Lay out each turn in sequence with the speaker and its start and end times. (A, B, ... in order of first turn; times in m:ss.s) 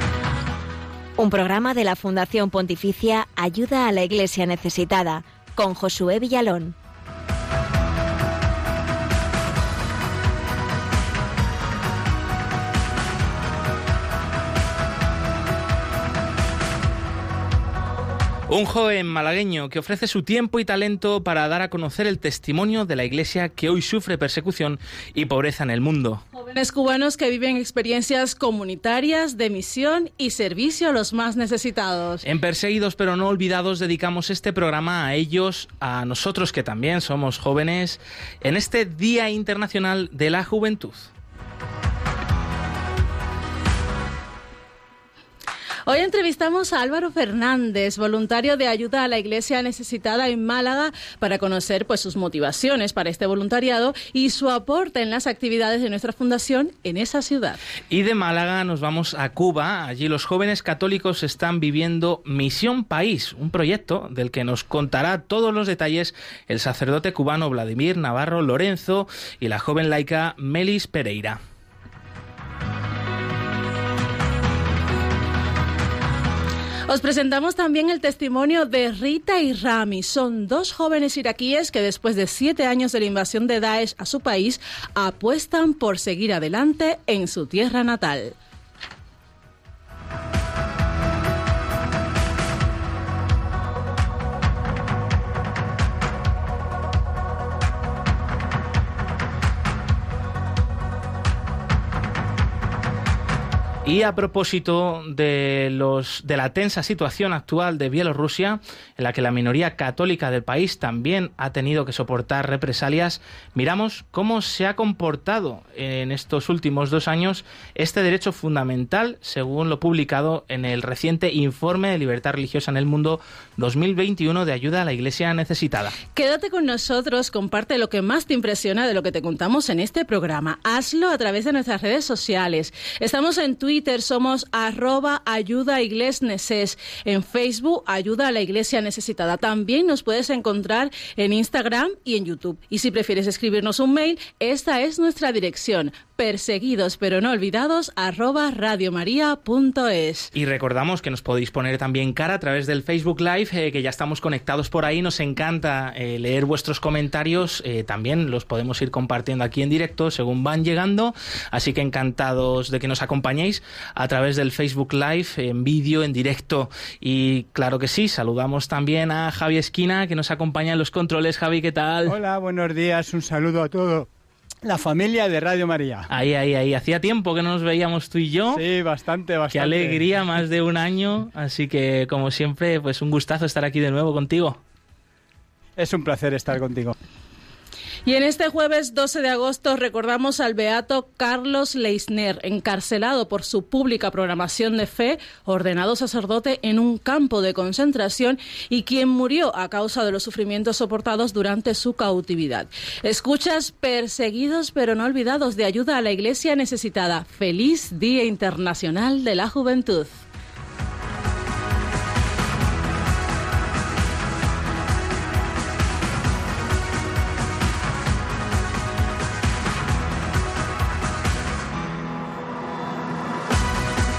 0:01.2-0:06.8 A
0:18.5-0:26.2 B
0:26.4-0:32.3 C
0:32.2-0:41.1 B
0:45.8-0:57.6 C
0:57.9-1:11.4 B
1:16.9-1:28.4 C
1:43.8-2:06.0 B
2:06.1-2:30.3 C
2:30.3-2:52.2 B
2:52.1-2:54.1 D
2:54.6-2:56.1 D
2:56.1-2:58.6 B
2:58.5-3:00.1 D
2:59.5-3:04.6 B
3:05.8-3:06.9 D
3:08.0-3:30.3 C